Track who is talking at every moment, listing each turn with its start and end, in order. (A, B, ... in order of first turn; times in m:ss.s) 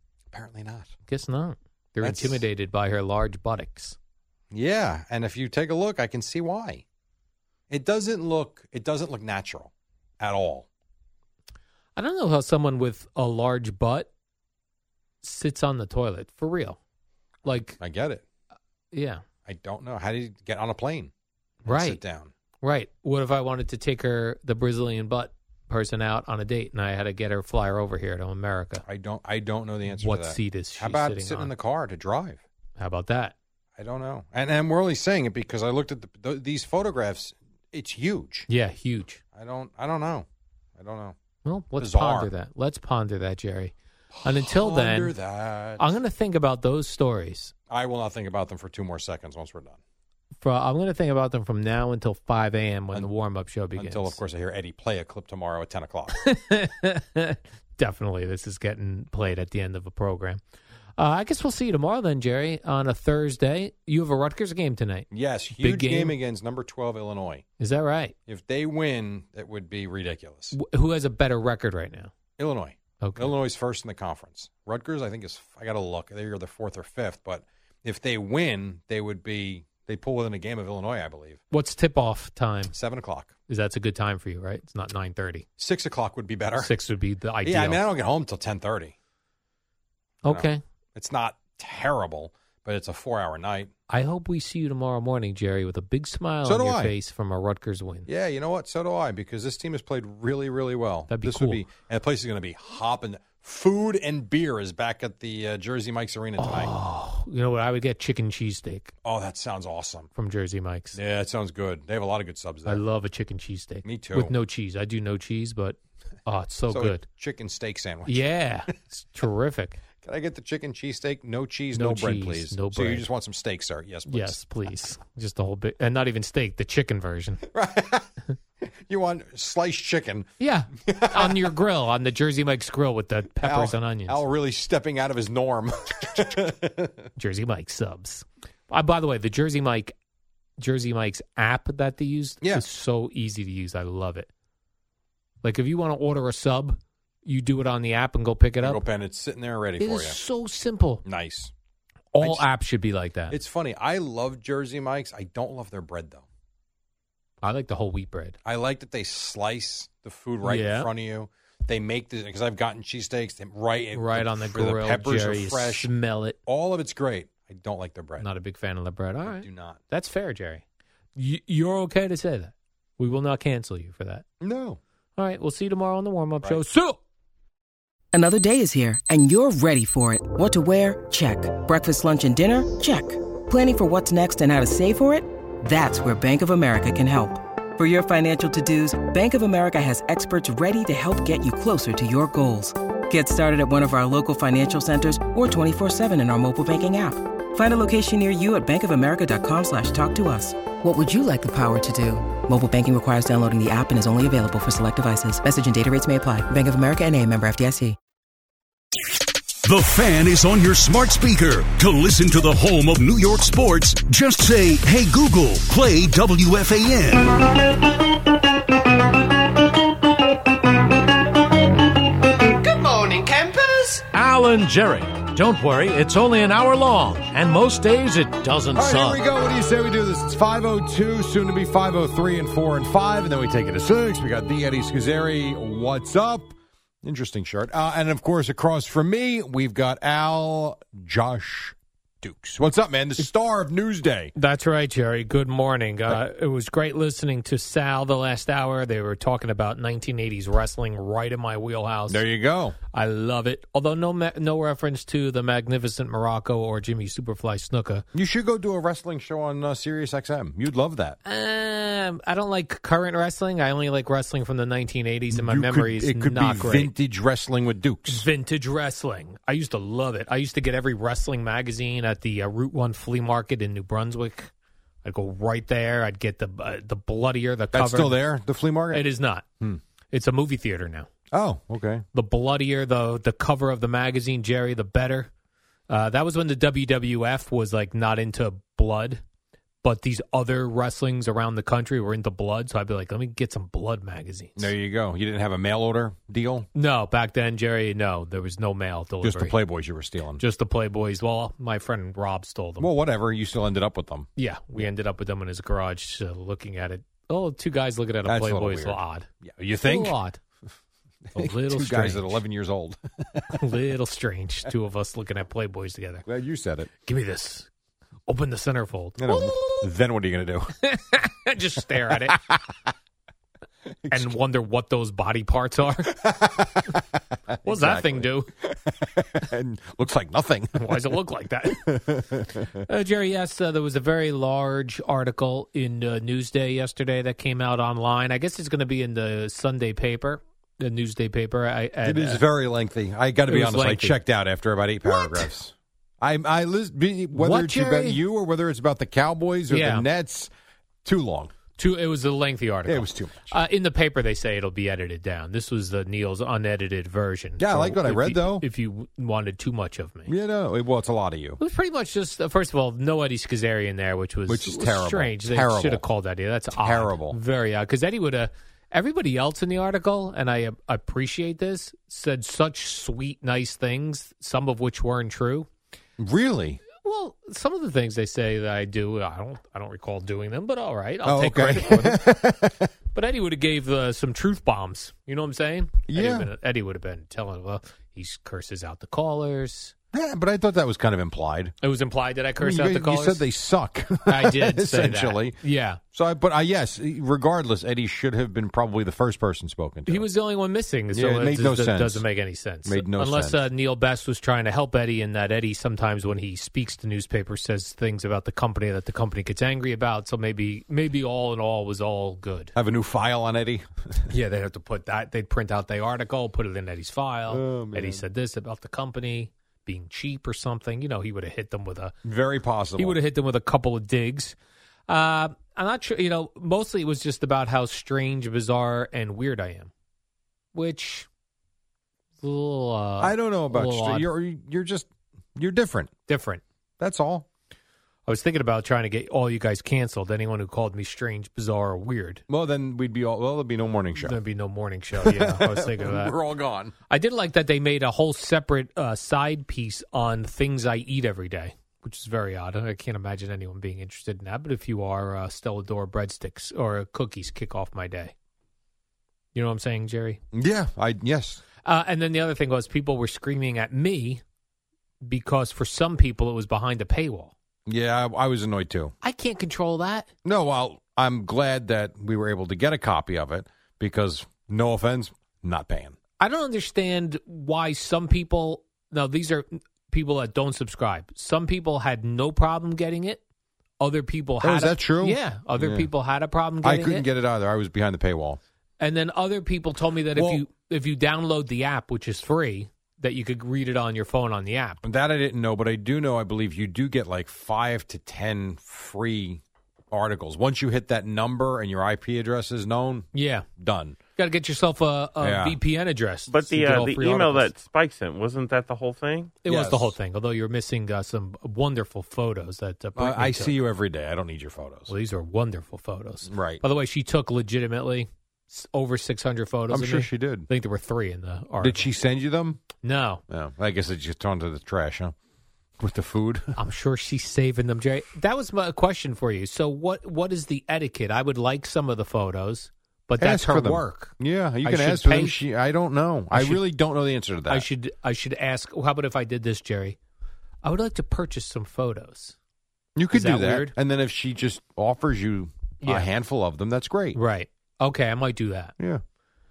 0:00.3-0:00.9 A
0:01.1-0:04.0 B
0:02.0-0:02.4 A
0:04.5-0:06.8 A
0:07.7-0:10.7 A
0:12.0-0:14.1 B
0:15.2-0:16.8 B
0:17.4-0:17.8 B
0:17.8-0:18.2 A
0:18.9-0:19.2 B
0:19.5-0:21.1 A
0:21.6-0:22.0 B
0:21.6-0:22.3 A
0:22.6-0:28.8 B
0:28.9-0:32.4 A
0:29.9-0:31.5 B
0:32.8-0:33.4 B
0:33.8-0:38.5 A
0:38.5-0:39.2 B
0:39.3-0:40.3 A
0:40.8-0:41.2 A
0:41.4-0:43.7 B
0:41.8-0:42.3 A
0:44.1-0:46.0 A
0:44.2-0:45.1 B
0:45.8-0:47.5 B
0:47.7-0:49.8 A
0:50.4-0:54.2 B
0:53.8-0:56.2 A
0:56.2-1:00.4 B
1:01.0-1:06.2 B
1:05.1-1:07.5 A
1:07.6-1:08.2 B
1:08.3-1:10.6 A
1:10.5-1:12.1 B
1:12.4-1:21.4 A
1:13.0-1:13.3 B
1:21.5-1:22.7 B
1:22.7-1:23.3 A
1:23.5-1:25.5 B
1:25.6-1:26.7 A
1:26.6-1:27.8 B
1:27.4-1:29.0 A
1:30.2-1:30.6 B
1:30.3-1:33.7 A
1:33.9-1:38.1 B
1:36.4-1:36.9 A
1:38.1-1:46.7 A
1:41.1-1:41.6 B
1:46.4-1:48.9 B
1:49.0-1:50.1 A
1:50.2-1:51.0 B
1:50.9-1:52.8 A
1:52.7-1:57.0 B
1:53.8-1:54.3 A
1:56.7-1:58.7 A
1:58.1-1:59.8 B
2:00.0-2:04.4 A
2:01.7-2:03.1 B
2:04.1-2:07.4 B
2:07.5-2:08.1 A
2:08.6-2:10.3 A
2:10.4-2:14.2 B
2:10.8-2:11.5 A
2:13.4-2:17.1 A
2:17.2-2:20.0 B
2:20.6-2:24.3 B
2:25.4-2:28.8 B
2:28.6-2:30.2 A
2:29.8-2:31.0 B
2:31.0-2:31.5 A
2:32.1-2:33.4 B
2:32.2-2:32.5 A
2:33.3-2:36.2 A
2:37.4-2:38.4 B
2:38.4-2:45.9 A
2:40.4-2:40.9 B
2:43.9-2:46.4 B
2:46.5-2:48.3 A
2:48.2-2:50.6 B
2:49.2-2:49.8 A
2:51.2-2:54.2 B
2:54.4-2:54.8 A
2:55.2-2:57.0 B
2:58.1-3:28.0 C
3:29.6-3:37.3 D
3:42.4-3:49.2 E
3:48.8-4:04.3 A
4:04.4-4:12.2 B
4:12.1-4:12.8 A
4:12.9-4:18.0 B
4:18.1-4:21.2 A
4:21.2-4:26.9 B
4:25.3-4:28.3 A
4:28.1-4:34.5 B
4:35.0-4:38.2 B
4:37.7-4:39.1 A
4:38.9-4:39.4 B
4:40.1-4:41.1 B
4:41.3-4:42.0 A
4:42.1-4:45.3 B
4:45.9-4:49.2 B
4:49.8-4:54.7 B
4:54.6-4:56.7 A
4:56.8-4:59.6 B
4:59.2-5:00.4 A
5:00.4-5:02.9 B
5:02.8-5:04.9 A
5:04.4-5:09.3 B
5:08.3-5:10.2 A
5:09.8-5:10.4 B
5:11.3-5:13.6 A
5:11.4-5:12.4 B
5:13.5-5:16.2 B
5:16.3-5:16.9 A
5:17.0-5:17.7 B
5:18.3-5:19.9 B
5:19.2-5:20.8 A
5:20.8-5:22.4 B
5:22.3-5:22.6 A
5:24.0-5:24.4 A
5:24.1-5:26.2 B
5:26.1-5:32.7 A
5:27.6-5:28.5 B
5:30.8-5:32.0 B
5:32.8-5:42.4 B
5:42.0-5:50.5 A
5:43.5-5:44.2 B
5:45.1-5:45.5 B
5:47.3-5:48.2 B
5:49.7-5:50.1 B
5:51.0-5:51.5 A
5:51.8-6:00.3 B
5:52.9-5:53.6 A
5:57.6-5:58.6 A
6:00.3-6:01.6 A
6:01.6-6:15.7 B
6:04.5-6:06.0 A
6:06.8-6:07.4 A
6:16.2-6:16.8 A
6:17.0-6:22.2 B
6:21.2-6:22.9 A
6:23.2-6:29.9 B
6:26.1-6:26.5 A
6:30.1-6:31.7 A
6:31.8-6:33.4 B
6:32.6-6:35.6 A
6:34.3-6:36.0 B
6:36.1-6:40.3 A
6:40.1-6:52.7 B
6:41.1-6:42.2 A
6:42.8-6:43.6 A
6:52.8-6:54.3 A
6:54.3-7:02.1 B
6:57.5-6:58.2 A
7:02.2-7:03.2 A
7:03.0-7:04.6 B
7:05.1-7:09.9 B
7:10.7-7:11.3 B
7:12.4-7:14.3 B
7:13.2-7:16.1 A
7:16.3-7:16.6 B
7:17.0-7:17.5 A
7:18.3-7:22.4 B
7:22.5-7:24.4 A
7:24.2-7:26.4 B
7:25.2-7:26.9 A
7:27.1-7:38.3 B
7:39.6-7:40.4 B
7:40.5-7:41.6 A
7:41.8-7:44.4 B
7:45.2-7:47.5 B
7:47.9-7:49.1 A
7:49.2-7:50.3 B
7:50.4-7:56.2 A
7:56.4-8:03.4 B
8:04.0-8:07.2 B
8:04.6-8:06.1 A
8:06.8-8:08.6 A
8:09.0-8:15.0 B
8:10.4-8:10.6 A
8:15.0-8:24.2 A
8:23.3-8:23.7 B
8:24.4-8:27.7 B
8:25.4-8:25.8 A
8:26.5-8:29.6 F
8:29.6-8:33.8 B
8:29.7-8:30.1 A
8:33.2-8:35.1 A
8:35.1-8:42.1 B
8:36.5-8:36.8 A
8:39.9-8:40.7 A
8:41.8-8:42.8 A
8:43.0-8:43.4 B
8:43.5-8:45.3 A
8:46.0-8:46.8 A
8:46.8-8:55.6 B
8:53.4-8:57.9 A
8:56.5-8:56.8 B
8:57.7-9:00.2 B
9:00.8-9:02.6 B
9:03.2-9:07.4 A
9:03.3-9:03.9 B
9:06.0-9:06.3 B
9:07.4-9:08.9 B